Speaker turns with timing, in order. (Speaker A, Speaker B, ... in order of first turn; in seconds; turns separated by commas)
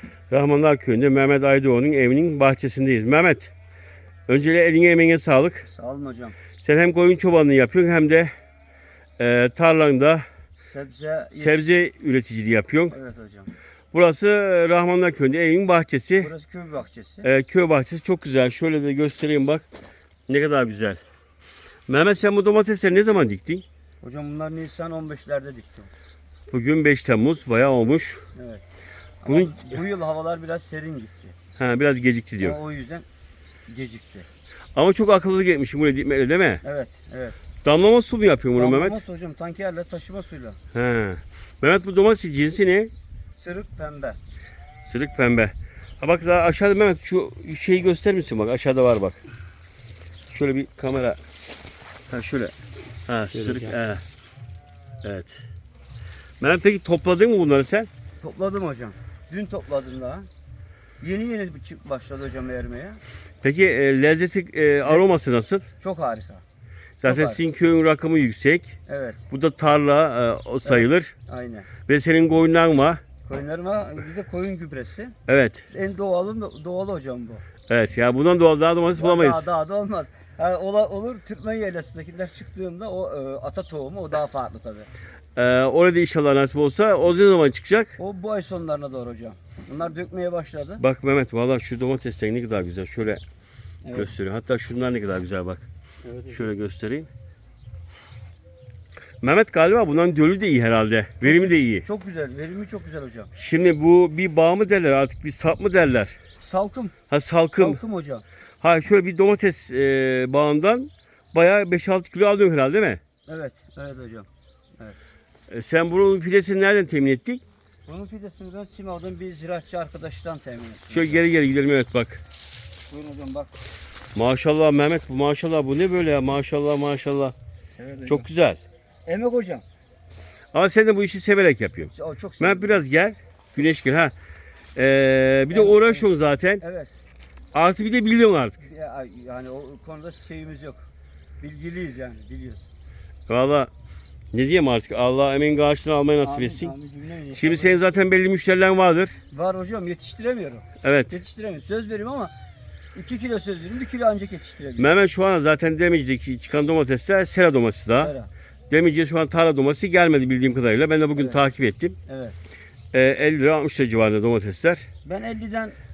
Speaker A: 0.3-3.5, Speaker A: 4.3-5.7, Speaker B: 5.6-6.4, Speaker A: 6.6-8.3, Speaker A: 9.2-10.2, Speaker B: 10.7-11.7, Speaker A: 11.3-12.9, Speaker B: 12.9-13.5, Speaker A: 13.9-16.3, Speaker B: 16.2-17.3, Speaker A: 17.2-19.6, Speaker A: 20.3-21.0, Speaker A: 21.9-23.6, Speaker B: 24.0-25.9, Speaker A: 26.5-28.2, Speaker B: 28.3-28.6, Speaker B: 29.2-31.3, Speaker A: 29.3-29.7, Speaker A: 31.6-32.6, Speaker B: 32.4-33.0, Speaker B: 33.7-34.2, Speaker A: 34.8-36.6, Speaker B: 36.6-37.4, Speaker A: 37.6-39.0, Speaker B: 38.5-40.6, Speaker A: 40.7-42.9, Speaker B: 43.4-44.2, Speaker A: 44.8-49.2, Speaker A: 50.3-51.2, Speaker A: 52.1-52.5, Speaker A: 53.1-54.0, Speaker B: 53.4-53.7, Speaker A: 55.0-55.4, Speaker A: 56.4-57.9, Speaker B: 58.2-60.3, Speaker B: 61.0-63.0, Speaker A: 63.4-65.7, Speaker B: 65.8-66.4, Speaker A: 67.0-68.7, Speaker B: 67.0-67.4, Speaker B: 68.9-69.2, Speaker A: 69.3-71.1, Speaker B: 70.6-71.7, Speaker A: 71.9-73.0, Speaker B: 73.2-75.1, Speaker A: 75.3-75.7, Speaker B: 75.7-77.4, Speaker A: 77.7-79.5, Speaker B: 79.0-84.9, Speaker A: 85.3-88.0, Speaker B: 88.0-90.8, Speaker A: 90.8-93.2, Speaker B: 93.8-94.1, Speaker A: 93.9-95.6, Speaker B: 96.0-96.4, Speaker A: 96.3-97.1, Speaker A: 99.2-101.8, Speaker B: 101.2-103.3, Speaker A: 103.3-106.2, Speaker B: 106.4-106.9, Speaker A: 107.1-107.8, Speaker B: 107.6-108.2, Speaker A: 108.6-113.0, Speaker B: 113.3-114.3, Speaker A: 115.5-117.4, Speaker B: 117.9-121.2, Speaker A: 120.9-122.2, Speaker B: 122.9-123.5, Speaker A: 124.1-127.3, Speaker B: 127.8-128.3, Speaker A: 128.1-128.6, Speaker B: 129.1-129.6, Speaker A: 130.5-134.1, Speaker B: 131.9-132.8, Speaker A: 134.8-136.6, Speaker B: 135.5-136.1, Speaker B: 136.6-136.9, Speaker A: 137.5-138.7, Speaker B: 138.6-140.8, Speaker B: 141.4-142.7, Speaker A: 143.3-143.7, Speaker A: 144.3-146.7, Speaker B: 146.2-147.8, Speaker A: 147.3-149.1, Speaker B: 149.3-152.3, Speaker A: 150.8-151.2, Speaker B: 152.9-154.9, Speaker A: 154.8-158.1, Speaker B: 158.0-158.3, Speaker A: 158.7-161.9, Speaker B: 161.2-161.4, Speaker B: 162.1-162.3, Speaker A: 162.9-164.8, Speaker B: 165.0-165.8